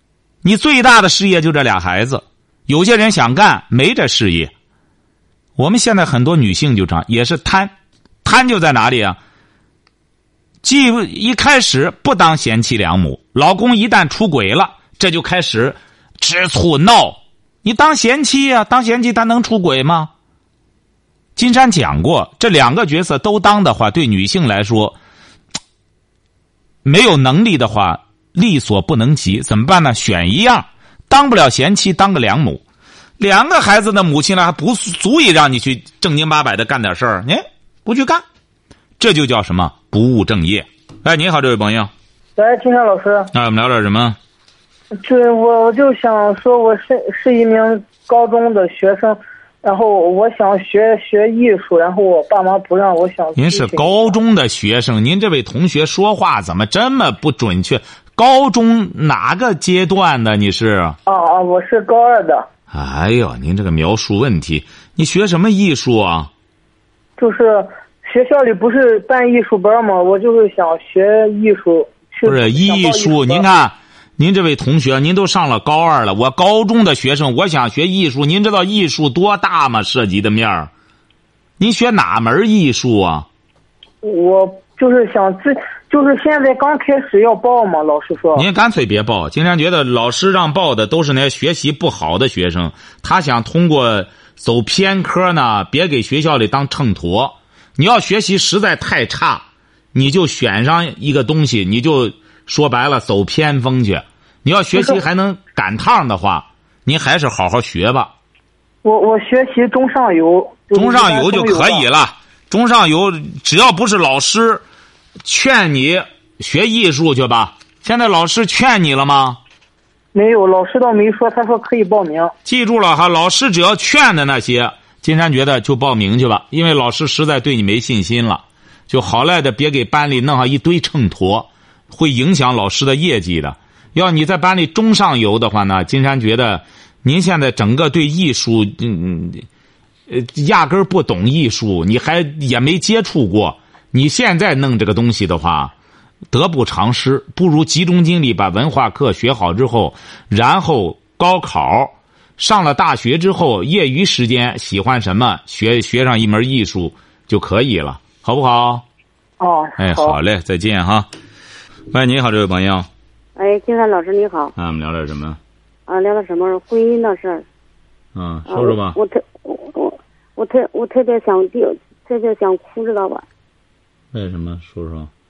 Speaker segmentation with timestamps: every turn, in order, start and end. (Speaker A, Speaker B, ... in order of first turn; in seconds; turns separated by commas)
Speaker A: 0.4-4.5, Speaker A: 5.5-7.7, Speaker A: 8.2-9.2, Speaker A: 10.6-20.1, Speaker A: 21.4-25.0, Speaker A: 26.8-32.6, Speaker A: 33.2-38.2, Speaker A: 39.0-41.9, Speaker B: 42.4-43.3, Speaker A: 43.3-44.2, Speaker B: 45.0-54.1, Speaker A: 53.3-61.0, Speaker B: 61.0-62.5, Speaker A: 62.7-66.3, Speaker B: 67.2-73.4, Speaker A: 72.2-80.7, Speaker A: 81.6-83.3, Speaker B: 84.0-88.4, Speaker A: 88.3-108.1, Speaker B: 108.8-111.8, Speaker A: 110.7-114.6, Speaker A: 115.2-119.4, Speaker B: 120.1-122.3, Speaker A: 122.4-139.4, Speaker A: 140.1-145.7, Speaker A: 146.3-158.8, Speaker B: 159.4-160.2, Speaker A: 159.8-161.1, Speaker A: 161.9-162.9, Speaker C: 163.3-164.5, Speaker A: 164.6-165.4, Speaker C: 165.9-167.4, Speaker A: 168.1-169.0, Speaker C: 168.5-173.2, Speaker A: 174.1-175.1